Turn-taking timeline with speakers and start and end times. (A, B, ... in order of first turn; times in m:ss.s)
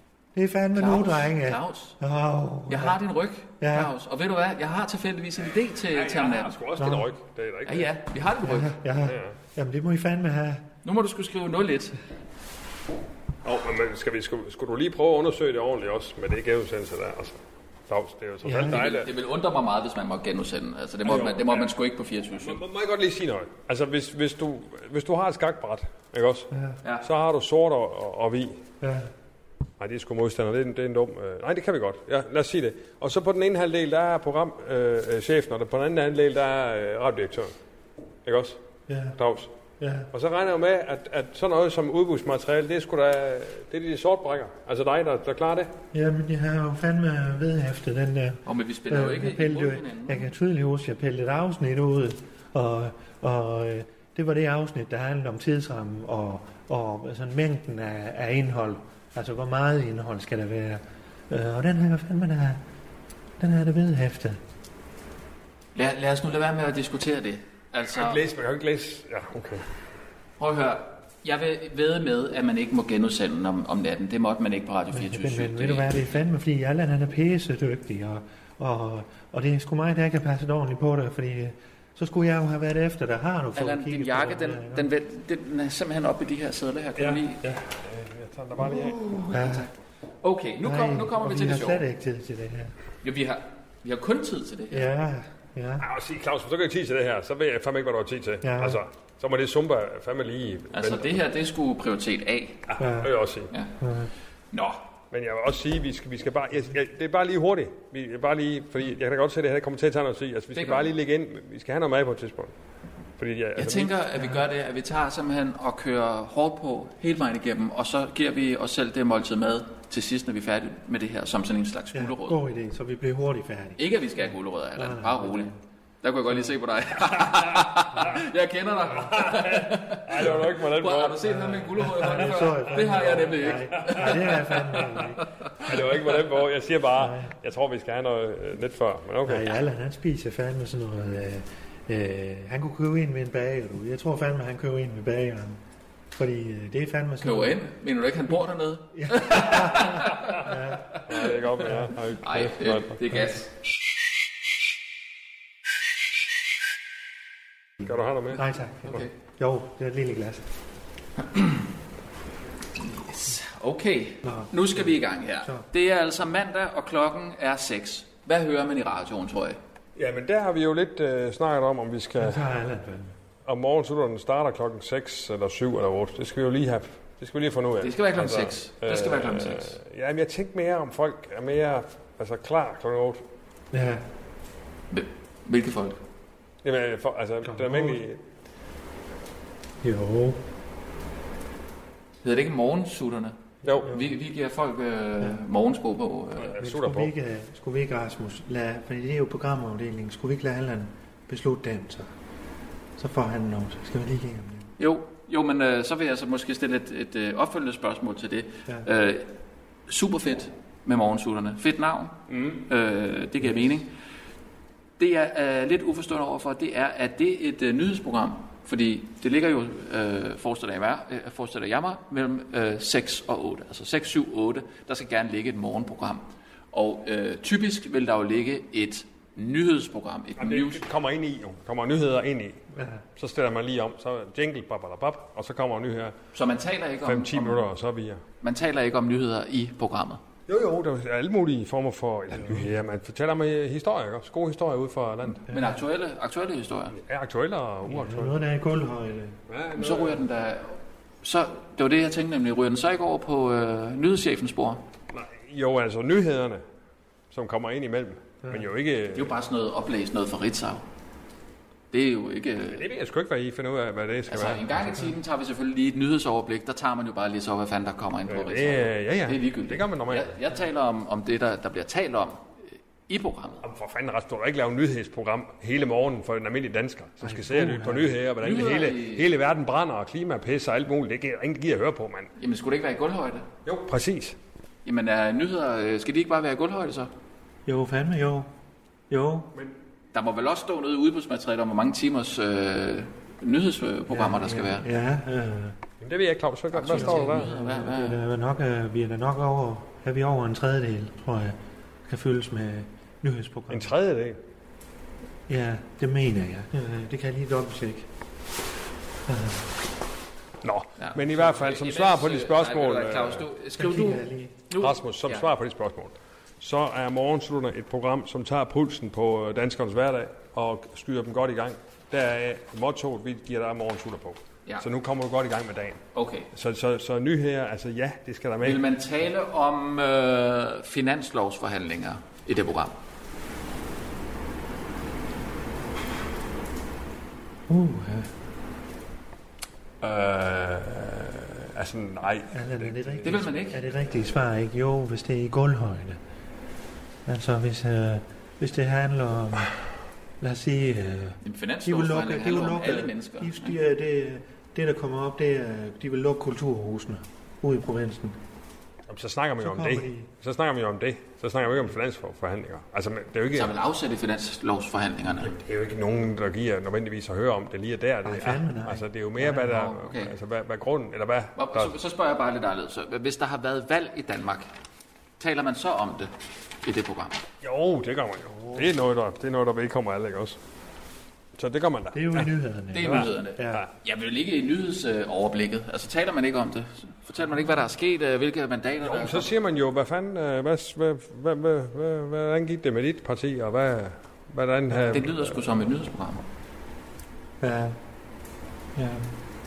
0:00.3-0:03.0 A
0:00.7-0:02.0 B
0:02.7-0:06.5 B
0:03.6-0:03.9 A
0:05.8-0:07.9 C
0:06.8-0:07.1 A
0:07.6-0:08.7 B
0:08.4-0:10.6 A
0:09.0-0:09.3 C
0:10.8-0:12.0 B
0:13.4-0:17.4 C
0:17.9-0:19.1 C
0:18.4-0:18.9 A
0:18.6-0:22.6 B
0:21.0-0:21.7 C
0:22.4-0:26.5 C
0:26.5-0:26.8 A
0:27.0-0:28.6 C
0:28.8-0:29.1 A
0:29.8-0:37.5 C
0:38.2-0:38.6 C
0:38.9-0:39.2 A
0:39.2-0:39.5 C
0:39.8-0:40.1 A
0:40.1-0:45.7 C
0:45.9-1:02.6 A
0:48.4-0:50.3 B
1:03.4-1:04.4 A
1:05.7-1:08.2 B
1:07.9-1:09.6 C
1:10.4-1:16.0 B
1:14.9-1:24.9 A
1:23.6-1:27.4 B
1:27.0-1:29.2 C
1:29.0-1:29.7 B
1:29.3-1:29.7 A
1:30.2-1:31.8 B
1:30.6-1:32.7 A
1:33.0-1:34.9 B
1:34.7-1:35.8 A
1:35.8-1:41.2 C
1:38.4-1:38.8 A
1:40.7-1:42.6 B
1:42.7-1:43.5 C
1:42.8-1:43.2 A
1:43.8-1:44.1 A
1:44.5-1:44.8 B
1:45.1-1:52.5 C
1:50.5-1:50.9 B
1:53.2-1:54.0 C
1:53.6-2:02.4 B
2:01.9-2:03.8 A
2:03.8-2:15.9 B
2:04.7-2:05.6 A
2:07.3-2:07.6 C
2:09.0-2:11.4 C
2:11.3-2:15.2 A
2:12.0-2:12.6 C
2:13.8-2:14.2 C
2:15.6-2:19.5 C
2:17.0-2:17.3 A
2:19.2-2:25.6 A
2:26.1-2:27.6 A
2:27.2-2:33.5 B
2:28.9-2:30.9 A
2:30.9-2:33.2 C
2:37.8-2:38.4 C
2:38.3-2:40.5 A
2:38.8-2:39.1 B
2:41.2-2:41.7 B
2:42.8-2:49.6 B
2:44.2-2:44.8 A
2:50.0-2:52.4 C
2:52.2-2:53.1 A
2:53.4-3:03.2 C
2:57.8-2:59.8 B
3:03.7-3:04.0 A
3:04.9-3:06.0 B
3:06.6-3:08.2 C
3:07.4-3:08.0 A
3:09.8-3:10.4 A
3:12.2-3:16.5 B
3:13.6-3:14.0 C
3:16.4-3:17.1 C
3:16.6-3:22.1 A
3:23.0-3:24.7 A
3:24.8-3:29.3 B
3:29.9-3:33.9 B
3:32.3-3:32.6 C
3:35.0-3:50.8 B
3:50.4-3:52.6 C
3:52.7-3:53.0 A
3:53.2-3:56.2 C
3:56.3-3:57.6 B
3:57.0-3:58.2 C
3:58.4-4:00.2 B
4:00.5-4:05.4 C
4:05.3-4:07.0 B
4:05.5-4:05.8 A
4:06.9-4:08.4 C
4:07.8-4:09.4 A
4:09.5-4:10.2 C
4:09.8-4:14.8 B
4:15.1-4:16.6 C
4:17.3-4:19.3 C
4:19.1-4:20.8 B
4:21.9-4:22.8 B
4:22.7-4:24.9 C
4:24.3-4:33.6 B
4:28.3-4:30.3 C
4:33.6-4:42.3 C
4:37.2-4:38.2 A
4:38.4-4:39.3 B
4:42.4-4:43.5 B
4:43.6-4:44.4 C
4:44.8-4:47.1 B
4:47.6-4:48.5 A
4:49.1-4:49.5 A
4:50.1-4:54.9 B
4:54.1-4:55.8 A
4:56.0-4:57.5 C
4:56.7-4:58.2 B
4:56.9-5:03.9 A
5:03.7-5:04.4 C
5:05.5-5:08.1 A
5:09.3-5:09.7 A
5:10.6-5:13.4 C
5:11.0-5:15.5 B
5:13.8-5:14.6 A
5:14.8-5:28.8 C
5:26.1-5:26.5 B
5:28.6-5:32.9 B
5:37.7-5:38.3 A
5:40.0-5:43.7 C
5:42.5-5:46.2 A
5:43.2-5:43.8 B
5:47.2-5:49.7 A
5:50.4-5:58.4 A
5:51.4-5:53.7 B
5:59.1-6:03.7 C
5:59.6-6:00.3 A
6:03.5-6:05.5 B
6:05.4-6:11.9 C
6:08.2-6:09.7 A
6:09.5-6:10.3 B
6:11.6-6:14.7 B
6:15.4-6:16.3 B
6:16.8-6:17.4 B
6:17.6-6:20.6 C
6:18.5-6:18.9 A
6:21.6-6:22.5 C
6:22.1-6:23.8 A
6:22.9-6:29.5 B
6:23.0-6:23.9 C
6:29.0-6:35.6 C
6:35.1-6:36.4 B
6:37.6-6:38.0 A
6:38.9-6:39.3 A